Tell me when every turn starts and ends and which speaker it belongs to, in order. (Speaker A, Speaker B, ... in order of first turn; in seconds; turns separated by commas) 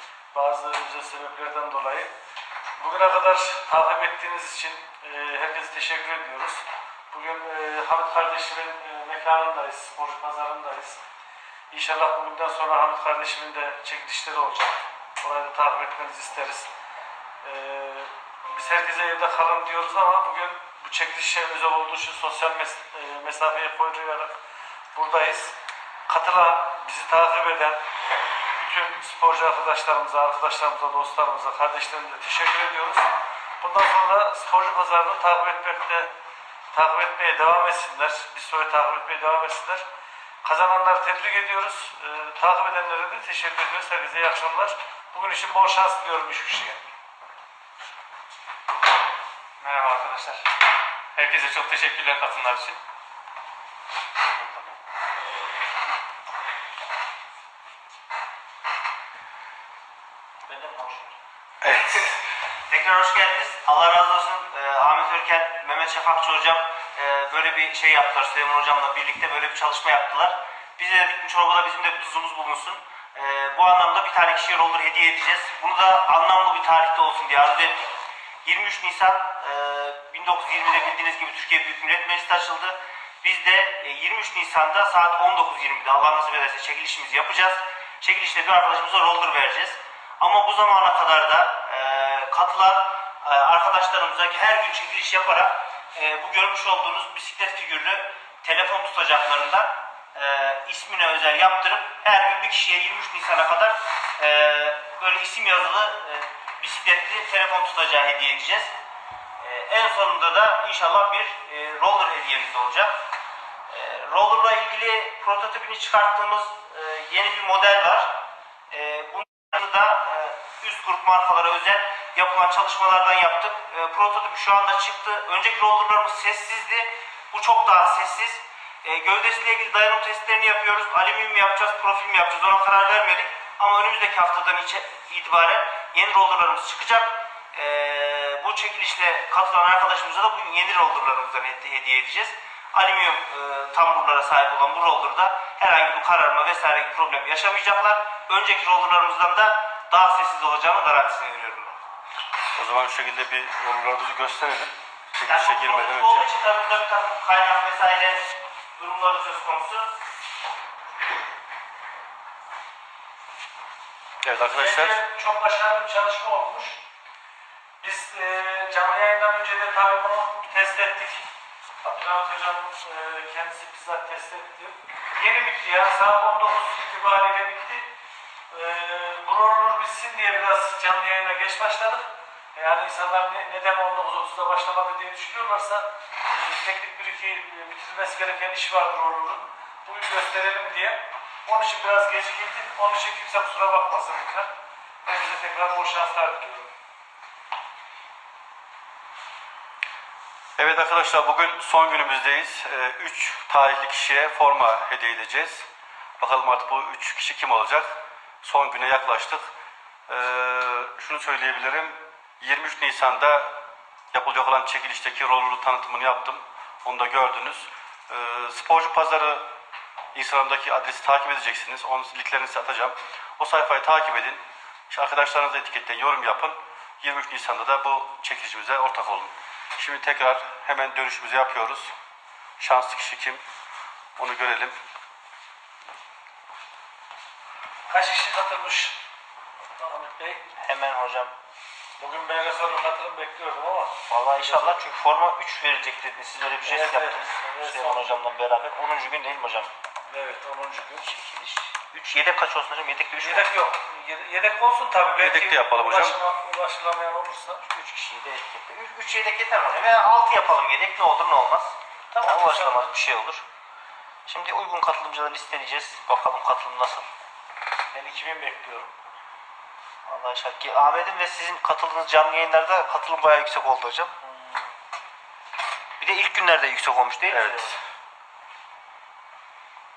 Speaker A: 0.3-2.1, Speaker A: 2.8-11.0, Speaker A: 11.7-16.7, Speaker A: 17.4-24.3, Speaker A: 24.9-25.5, Speaker A: 26.1-27.8, Speaker A: 28.6-33.1, Speaker A: 33.6-36.1, Speaker A: 36.7-39.8, Speaker A: 40.4-46.8, Speaker B: 49.6-50.4, Speaker B: 51.1-52.8, Speaker B: 54.3-54.8, Speaker C: 61.6-62.1, Speaker D: 62.7-108.7, Speaker D: 109.4-113.0, Speaker D: 113.7-151.8, Speaker C: 152.6-156.2, Speaker D: 155.3-158.2, Speaker D: 158.8-159.9, Speaker C: 164.2-165.0, Speaker A: 164.4-166.8, Speaker A: 167.8-171.2, Speaker A: 171.8-177.9, Speaker A: 178.5-194.5, Speaker A: 195.0-196.7, Speaker C: 200.6-205.7, Speaker C: 206.2-209.5, Speaker C: 210.1-213.6, Speaker C: 214.1-219.4, Speaker C: 220.1-231.9, Speaker C: 232.6-233.4, Speaker C: 234.2-234.8, Speaker A: 237.9-239.0, Speaker A: 239.8-240.5, Speaker D: 240.6-241.3, Speaker A: 242.0-244.8, Speaker D: 244.1-249.7, Speaker A: 246.6-248.3, Speaker A: 250.1-251.1, Speaker D: 251.0-253.5, Speaker A: 253.2-257.6, Speaker C: 255.2-256.2, Speaker D: 257.6-263.4, Speaker A: 262.1-262.9, Speaker D: 264.2-267.1, Speaker A: 267.9-268.9, Speaker D: 270.1-274.1, Speaker A: 274.2-274.7, Speaker D: 276.0-277.8, Speaker C: 277.3-277.8